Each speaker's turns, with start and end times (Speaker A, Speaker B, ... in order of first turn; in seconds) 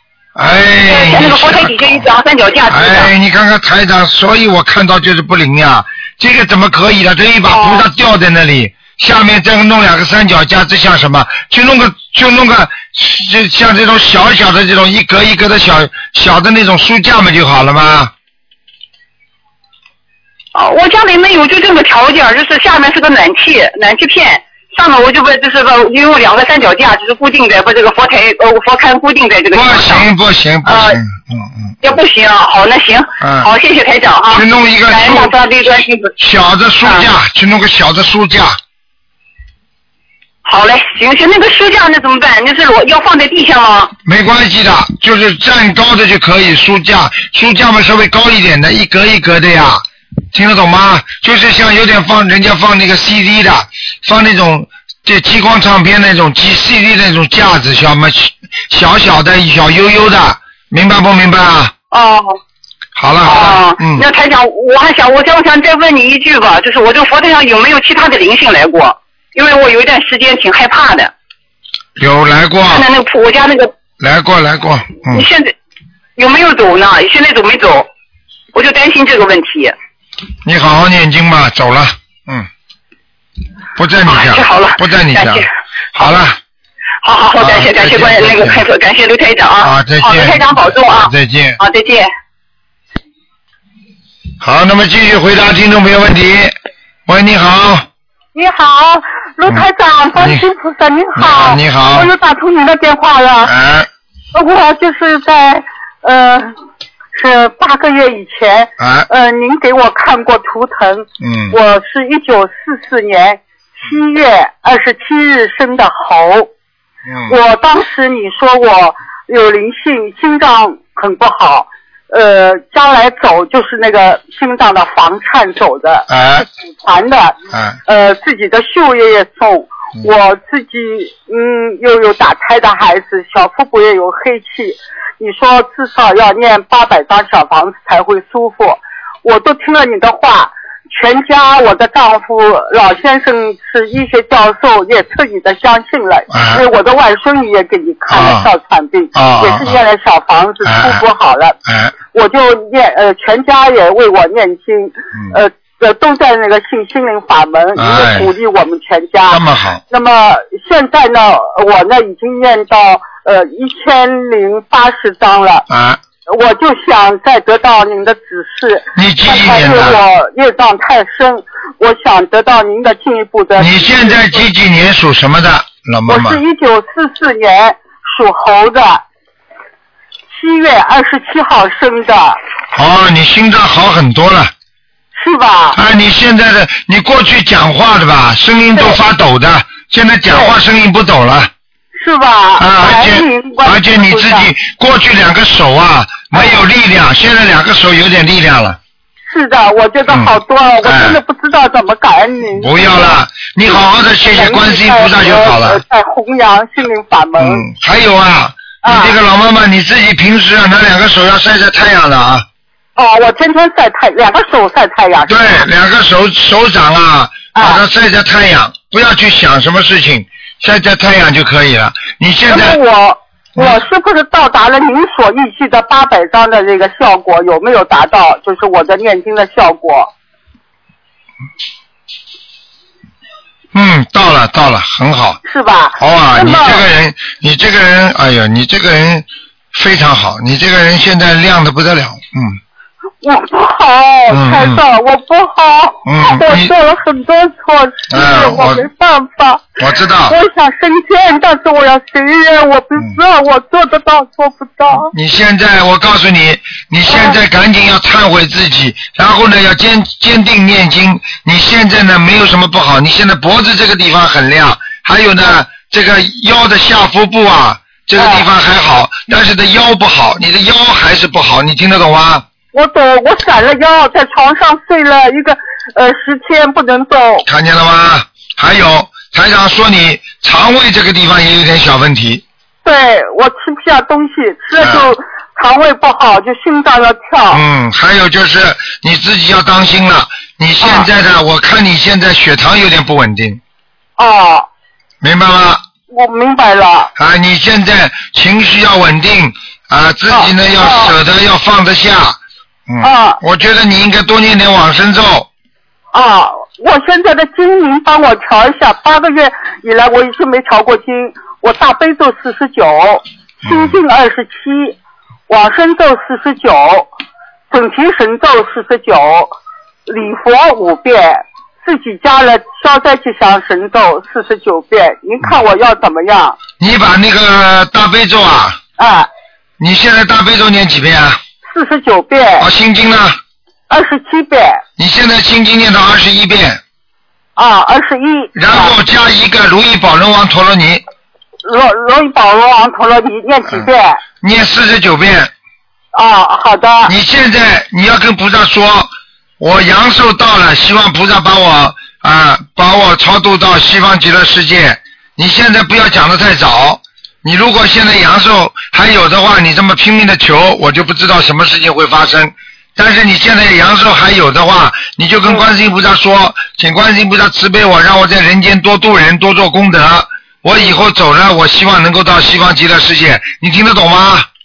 Speaker A: 0.3-2.0, 2.7-18.1, 29.5-31.8, 33.2-33.5, 34.3-35.3, 36.2-38.6, 44.0-61.7, 63.0-64.0, 72.0-72.9, 74.0-75.3, 80.4-82.5, 83.8-86.4, 87.4-88.6, 89.6-91.6, 94.4-96.5, 97.0-97.9, 101.2-102.1, 103.4-103.9, 108.8-109.1, 111.2-111.5, 117.1-117.3, 126.1-126.5, 127.5-127.8, 146.3-146.6, 148.1-148.5, 149.1-149.8, 150.6-151.0, 151.7-151.9, 157.8-158.3, 159.3-159.8, 165.7-166.0, 168.9-170.0, 173.6-176.4, 182.7-184.5, 185.7-191.5, 192.6-198.8, 200.8-201.2, 202.6-205.8, 207.4-212.4, 215.3-222.8, 233.7-235.4, 236.0-242.6, 244.3-244.8, 246.1-246.7, 248.1-248.8, 249.8-250.3, 255.1-272.4, 277.4-282.4, 284.8-285.1, 287.5-293.6, 295.2-295.8, 297.2-305.5, 313.6-314.0, 326.8-328.8, 329.8-331.4, 332.6-333.4, 335.0-336.8, 338.6-341.0, 344.4-345.5, 347.1-374.5
Speaker B: 0.9-3.1, 7.5-7.8, 20.5-30.1, 30.6-31.0, 31.8-36.1, 40.4-43.9, 61.9-62.4, 63.2-71.1, 72.7-73.7, 75.1-75.5, 76.2-77.9, 78.5-79.7, 84.0-86.1, 87.0-92.1
Speaker C: 98.3-103.5, 104.3-106.5, 107.1-116.5, 117.3-151.6, 152.1-165.7, 166.3-174.5, 176.1-179.0, 180.3-182.4, 185.1-185.8, 188.7-189.0, 190.3-190.6, 192.0-194.5, 196.3-196.6, 199.3-207.6, 208.8-209.2, 212.9-215.7, 217.5-217.8, 222.5-230.1, 235.4-236.9, 243.2-249.7, 250.2-255.1, 257.1-257.4, 268.1-268.5, 272.7-277.4, 282.8-287.6, 290.8-291.1, 294.2-294.7, 296.1-297.1, 300.3-301.1, 303.0-303.4, 306.1-315.0, 315.5-317.1, 317.7-319.5, 320.1-326.6, 329.0-329.3, 331.6-332.7, 333.9-334.8, 337.6-338.9, 341.6-344.2, 346.1-347.1